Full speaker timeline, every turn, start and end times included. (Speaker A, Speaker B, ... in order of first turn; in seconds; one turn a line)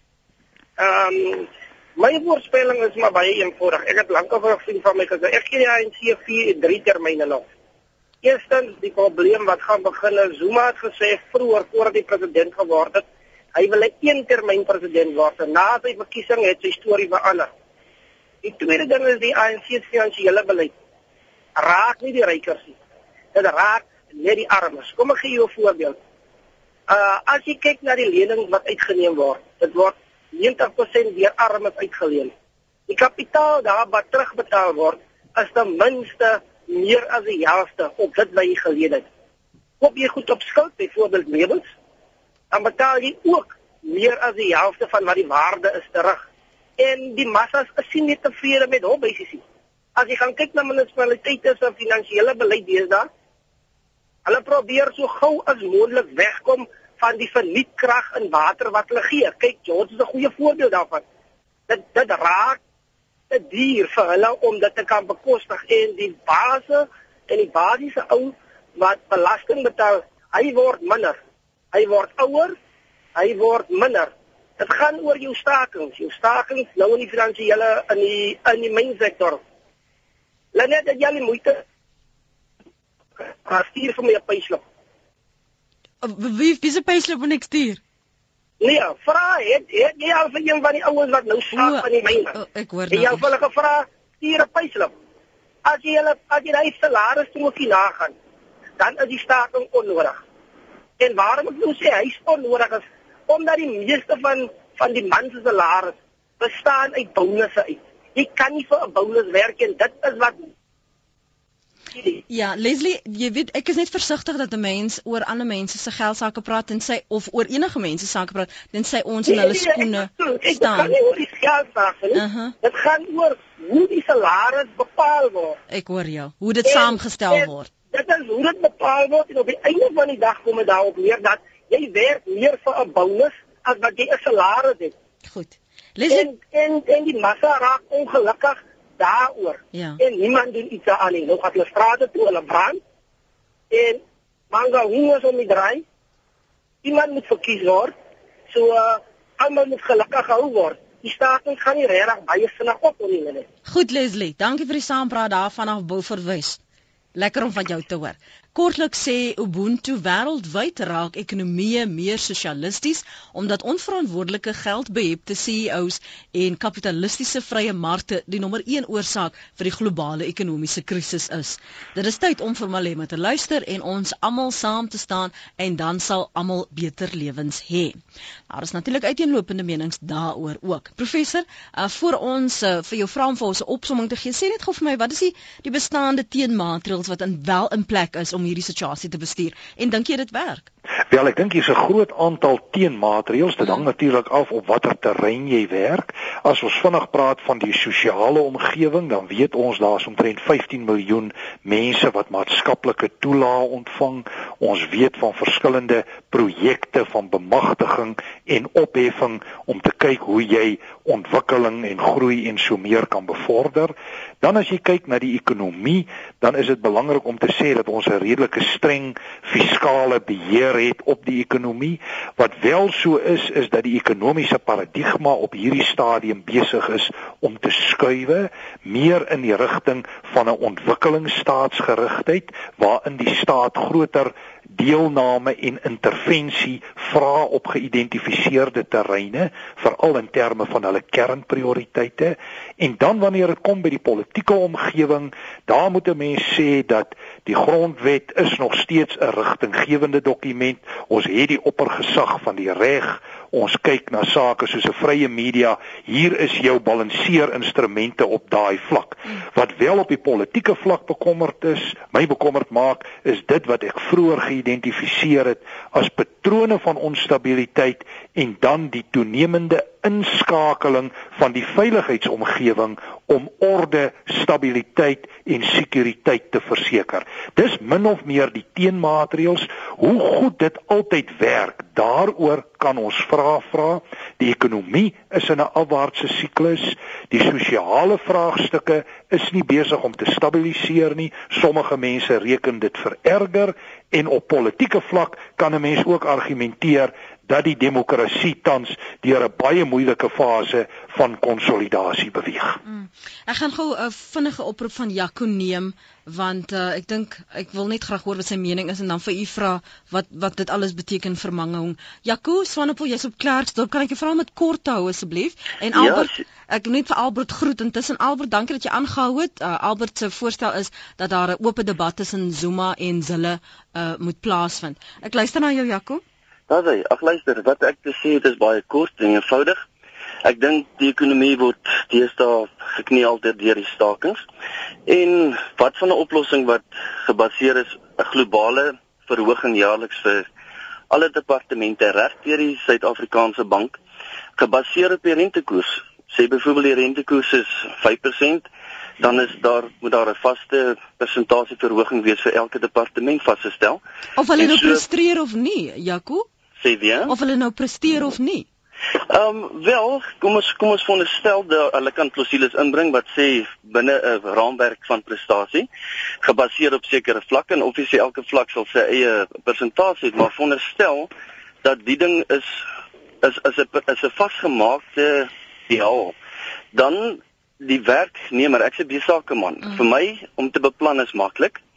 Speaker A: 0.8-7.5
Speaker A: 8.2-17.5
Speaker A: 18.4-20.7
Speaker A: 21.6-22.8
Speaker A: 23.3-26.0
Speaker A: 26.9-32.3
Speaker A: 32.9-39.1
Speaker A: 39.8-41.6
Speaker A: 42.5-46.2
Speaker A: 46.8-49.4
Speaker A: 50.0-53.1
Speaker A: 54.3-61.0
Speaker A: 61.7-62.6
Speaker A: 63.3-71.2
Speaker A: 71.7-72.5
Speaker A: 73.2-79.4
Speaker A: 80.5-81.6
Speaker A: 83.2-84.6
Speaker B: 86.0-87.8
Speaker A: 88.6-92.4
Speaker B: 91.5-93.3
Speaker A: 92.9-94.9
Speaker A: 95.7-98.1
Speaker A: 98.8-100.2
Speaker A: 101.0-110.5
Speaker B: 112.3-121.0
Speaker A: 119.3-125.6
Speaker B: 122.1-122.5
Speaker B: 125.7-127.7
Speaker A: 126.7-134.9
Speaker B: 135.3-136.3
Speaker A: 136.1-142.8
Speaker B: 139.7-140.0
Speaker A: 143.7-145.8
Speaker A: 146.8-147.9
Speaker A: 148.5-153.5
Speaker B: 153.7-156.6
Speaker B: 157.2-178.0
Speaker B: 178.5-190.7
Speaker C: 191.1-302.8
Speaker B: 302.9-326.2
Speaker D: 315.9-316.4
Speaker D: 326.7-329.8
Speaker D: 330.4-334.4
Speaker D: 335.1-340.5
Speaker D: 341.1-344.0
Speaker D: 344.6-348.7
Speaker D: 349.2-354.0
Speaker B: 354.4-356.5
Speaker D: 354.6-355.0
Speaker D: 356.8-357.3
Speaker B: 357.3-358.7
Speaker D: 359.3-365.9
Speaker D: 366.4-371.3
Speaker D: 371.8-372.7
Speaker D: 373.4-376.3
Speaker D: 376.9-381.8